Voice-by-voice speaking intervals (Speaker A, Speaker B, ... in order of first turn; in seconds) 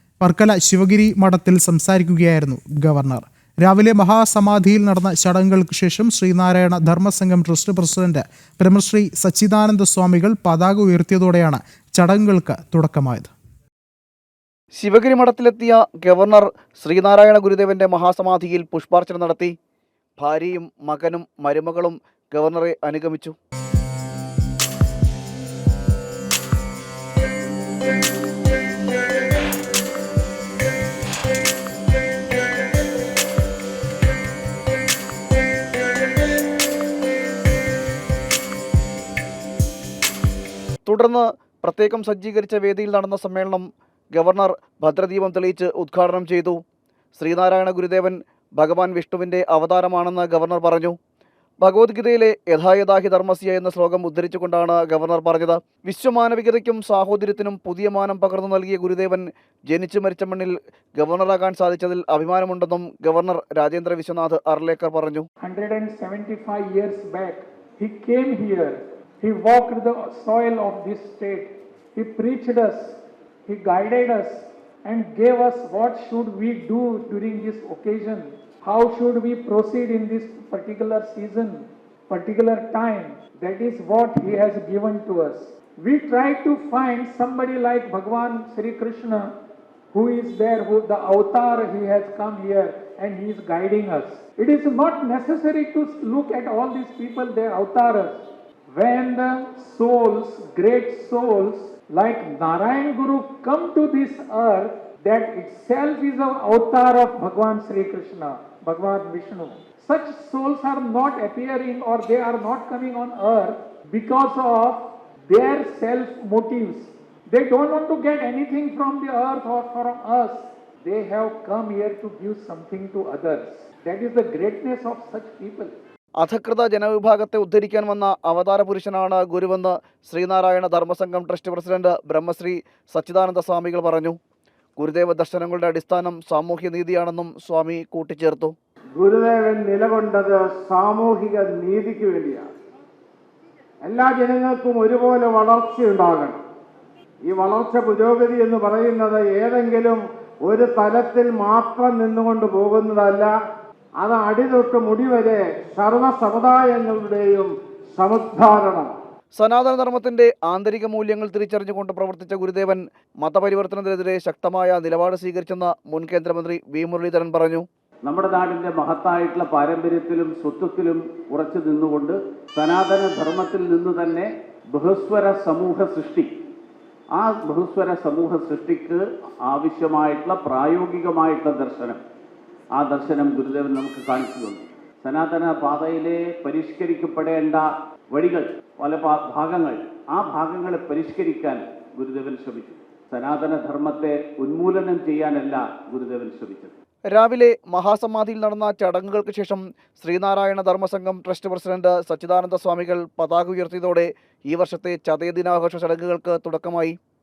Speaker A: 0.2-13.3
Speaker B: 14.8-19.5, 20.2-23.3, 40.9-46.6, 47.1-51.0, 51.6-65.2, 126.2-134.2, 134.8-138.5, 159.3-167.6, 197.1-206.9
Speaker C: 65.4-89.3, 89.9-125.8
Speaker D: 138.9-142.5, 143.8-146.4, 147.2-153.3, 154.0-158.9
Speaker E: 168.0-176.3, 177.1-182.0, 182.7-196.7